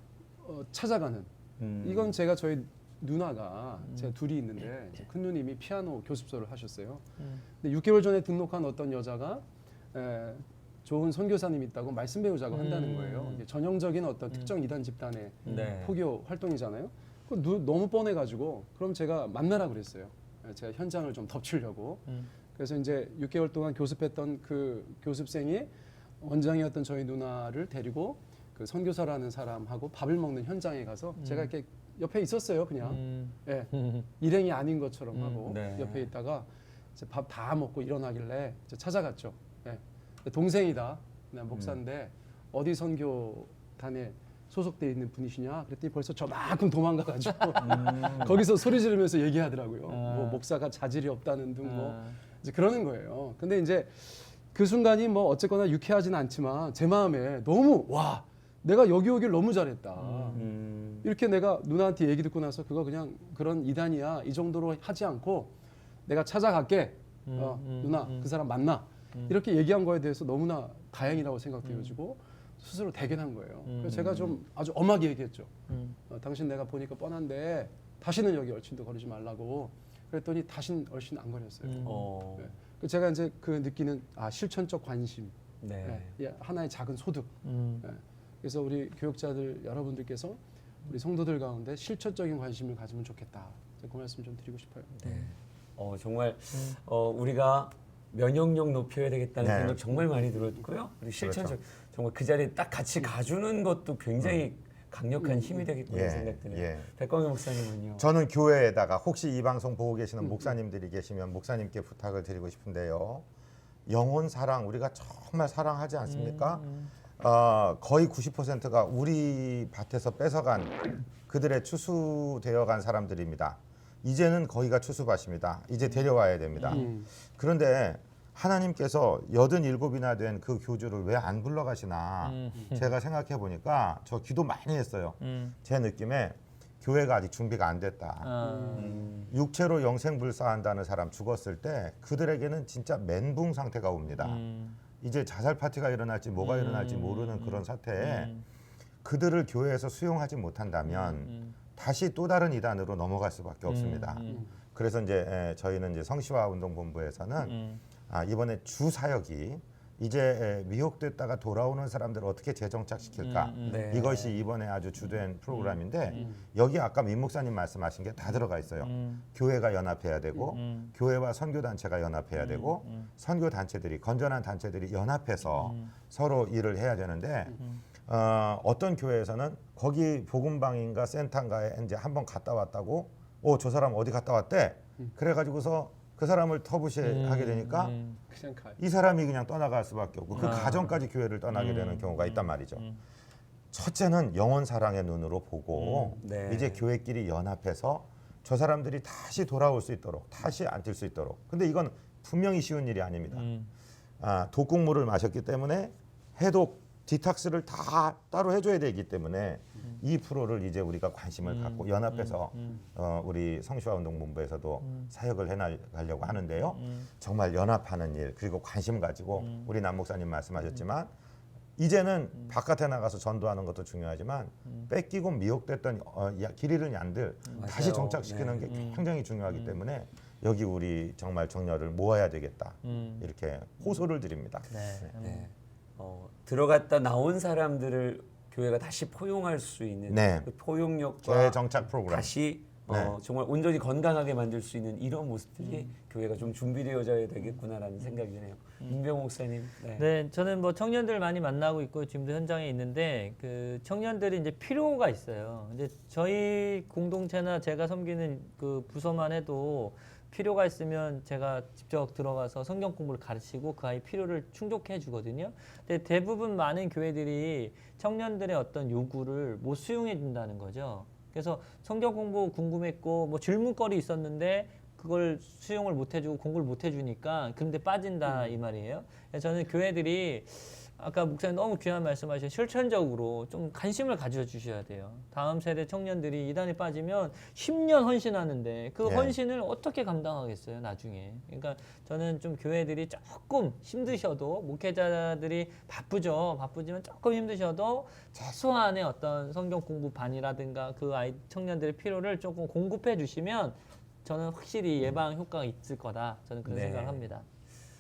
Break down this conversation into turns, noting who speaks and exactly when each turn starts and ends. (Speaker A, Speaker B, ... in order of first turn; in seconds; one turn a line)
Speaker A: 0.4-1.3
Speaker B: 1.6-2.2
Speaker A: 1.8-7.0
Speaker A: 7.6-25.7
Speaker C: 12.5-13.4
Speaker B: 15.4-16.0
Speaker C: 15.5-15.7
Speaker A: 26.2-60.5
Speaker C: 31.2-31.5
Speaker C: 32.8-34.1
Speaker C: 35.1-35.5
Speaker B: 35.5-36.1
Speaker B: 41.5-41.8
Speaker B: 47.6-48.4
Speaker C: 49.9-50.4
Speaker C: 51.6-52.2
Speaker C: 60.0-60.4
Speaker B: 60.4-61.1
Speaker A: 61.0-65.5
Speaker A: 66.1-75.5
Speaker C: 67.3-68.3
Speaker C: 71.6-72.0
Speaker C: 73.7-74.1
Speaker B: 73.9-74.4
Speaker C: 75.7-76.0
Speaker A: 76.1-95.0
Speaker C: 81.6-82.1
Speaker B: 81.8-82.5
Speaker B: 85.6-86.1
Speaker C: 87.4-87.9
Speaker B: 94.9-108.1
Speaker C: 96.5-96.8
Speaker D: 99.4-99.8
Speaker D: 101.2-101.6
Speaker D: 105.9-106.9
Speaker D: 108.0-113.2
Speaker D: 113.9-116.7
Speaker C: 116.0-116.9
Speaker D: 117.2-138.3
Speaker C: 126.6-126.9
Speaker A: 126.7-127.1
Speaker C: 132.2-132.9
Speaker C: 135.2-135.6
Speaker C: 138.2-139.0
Speaker A: 138.4-138.9
Speaker B: 138.8-139.3
Speaker D: 139.3-144.4
Speaker C: 144.2-144.8
Speaker D: 145.0-148.3
Speaker C: 146.4-148.4
Speaker D: 149.0-154.2
Speaker C: 150.9-151.6
Speaker C: 153.7-154.4
Speaker A: 154.3-154.5
Speaker D: 154.7-157.6
Speaker C: 157.4-157.8
Speaker D: 158.1-187.9
Speaker C: 163.2-164.3
Speaker B: 163.7-164.3
Speaker C: 165.0-166.3
Speaker A: 166.1-166.4
Speaker C: 168.8-169.2
Speaker C: 170.5-170.9
Speaker C: 172.4-173.1
Speaker C: 175.5-175.9
Speaker C: 187.0-188.2
Speaker A: 188.3-188.8
Speaker D: 188.8-192.8
Speaker C: 190.3-191.0
Speaker C: 191.5-193.0
Speaker D: 193.7-203.5
Speaker C: 195.8-196.2
Speaker B: 196.2-196.8
Speaker C: 203.3-203.7
Speaker D: 204.2-221.1
Speaker C: 211.4-212.8
Speaker C: 214.8-215.1
Speaker C: 216.7-217.1
Speaker C: 219.4-219.7
Speaker D: 221.8-234.8
Speaker B: 227.6-228.7
Speaker C: 228.7-229.8
Speaker C: 232.8-233.3
Speaker C: 234.7-235.5
Speaker B: 235.2-250.1
Speaker D: 240.1-240.5
Speaker D: 241.2-242.3
Speaker D: 242.9-243.2
Speaker C: 245.6-245.9
Speaker C: 250.0-307.5
Speaker D: 289.0-289.3
Speaker B: 306.6-307.3